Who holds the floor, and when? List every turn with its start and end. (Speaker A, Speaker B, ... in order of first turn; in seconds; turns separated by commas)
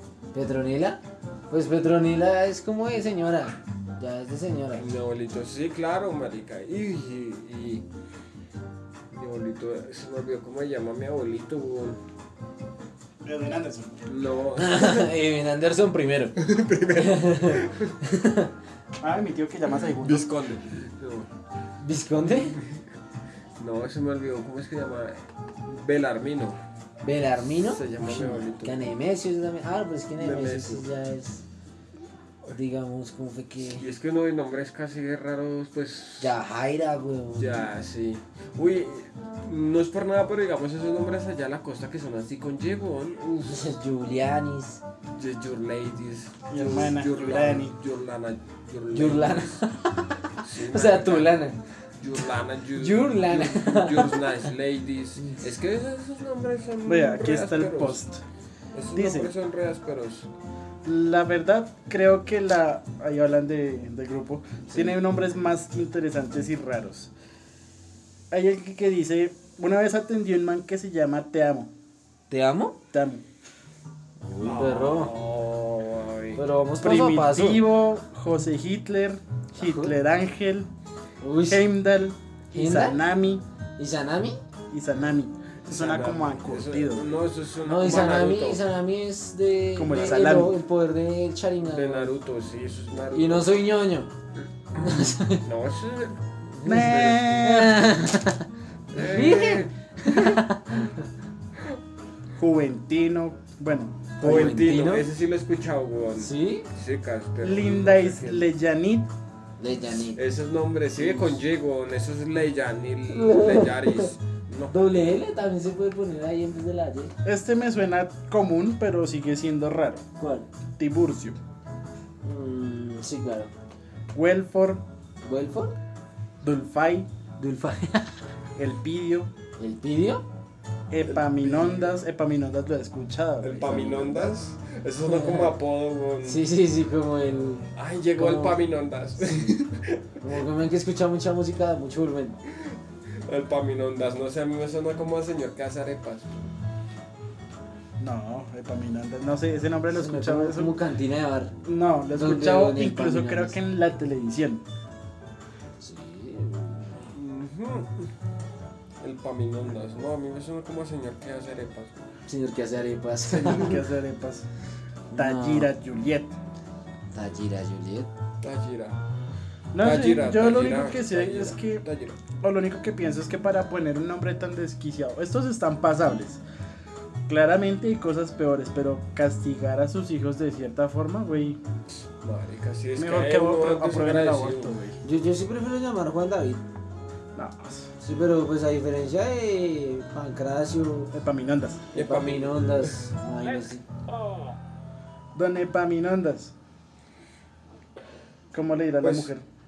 Speaker A: 0.3-4.9, Speaker B: 4.7-7.8, Speaker B: 9.1-12.0, Speaker C: 13.2-14.0, Speaker B: 14.1-15.1, Speaker A: 14.6-16.4, Speaker B: 16.4-18.0, Speaker A: 16.9-18.5, Speaker C: 19.0-20.2, Speaker B: 19.8-21.3, Speaker A: 21.8-22.6, Speaker B: 23.6-26.6, Speaker A: 27.0-31.4, Speaker B: 27.6-28.9, Speaker B: 30.1-30.9, Speaker A: 32.5-33.8, Speaker B: 33.6-36.4, Speaker A: 36.2-37.6, Speaker B: 37.3-43.7, Speaker A: 43.5-44.8, Speaker B: 45.1-49.6, Speaker C: 46.5-47.7, Speaker A: 48.9-50.1, Speaker B: 50.4-51.4, Speaker A: 50.7-51.6, Speaker B: 52.0-58.0, Speaker A: 52.8-54.2, Speaker C: 56.9-58.2, Speaker B: 58.7-60.3, Speaker C: 58.9-59.3, Speaker C: 60.8-67.1, Speaker A: 64.7-65.0, Speaker C: 68.3-71.7, Speaker A: 72.3-72.8, Speaker C: 72.9-73.2, Speaker A: 74.3-75.1, Speaker B: 74.4-76.4, Speaker A: 76.3-77.6, Speaker C: 76.8-80.7, Speaker A: 79.6-79.9, Speaker A: 81.2-81.7, Speaker C: 81.5-83.4, Speaker A: 82.5-83.0, Speaker A: 83.8-84.4, Speaker C: 84.7-87.1, Speaker B: 85.7-88.6, Speaker A: 87.6-92.1, Speaker C: 89.8-90.5, Speaker B: 91.6-93.6, Speaker A: 93.1-94.1, Speaker A: 94.8-95.4, Speaker B: 95.0-97.5, Speaker C: 96.6-97.9, Speaker A: 97.4-98.5, Speaker B: 98.9-100.4, Speaker A: 99.0-101.0, Speaker C: 102.3-104.2, Speaker A: 104.2-105.0, Speaker B: 104.2-108.5, Speaker A: 106.2-106.7, Speaker C: 107.4-109.1, Speaker A: 109.6-110.2, Speaker B: 110.1-115.1, Speaker A: 111.0-111.3, Speaker A: 113.1-114.1, Speaker A: 114.7-117.1, Speaker C: 117.2-120.0, Speaker A: 120.2-120.5, Speaker C: 120.8-121.4, Speaker A: 122.2-123.5, Speaker C: 124.1-124.8, Speaker A: 125.2-125.7, Speaker C: 126.4-127.1, Speaker A: 127.4-128.1, Speaker C: 128.6-129.3, Speaker A: 129.6-130.2, Speaker C: 130.9-134.3, Speaker B: 131.1-131.9, Speaker B: 133.4-136.5, Speaker A: 135.0-135.5, Speaker A: 136.2-138.6, Speaker B: 137.7-140.2, Speaker A: 140.2-142.3, Speaker B: 142.6-146.5, Speaker C: 148.0-150.8, Speaker A: 149.9-151.5, Speaker C: 151.6-154.6, Speaker A: 152.1-153.6, Speaker A: 155.8-157.0, Speaker B: 157.0-158.1, Speaker B: 159.0-162.0, Speaker A: 162.3-163.8, Speaker C: 163.3-164.4, Speaker A: 165.1-165.7, Speaker C: 165.2-166.3, Speaker A: 167.1-168.1, Speaker B: 168.4-169.0, Speaker C: 169.7-171.8, Speaker B: 169.8-172.2, Speaker C: 172.4-176.4, Speaker C: 177.3-181.6, Speaker B: 181.9-184.7, Speaker C: 183.0-185.0, Speaker A: 185.0-186.6, Speaker C: 187.3-187.9, Speaker A: 188.0-191.1, Speaker C: 191.1-191.9, Speaker B: 191.9-193.0, Speaker A: 191.9-193.8, Speaker C: 195.3-196.5, Speaker C: 198.5-199.4, Speaker B: 199.0-199.3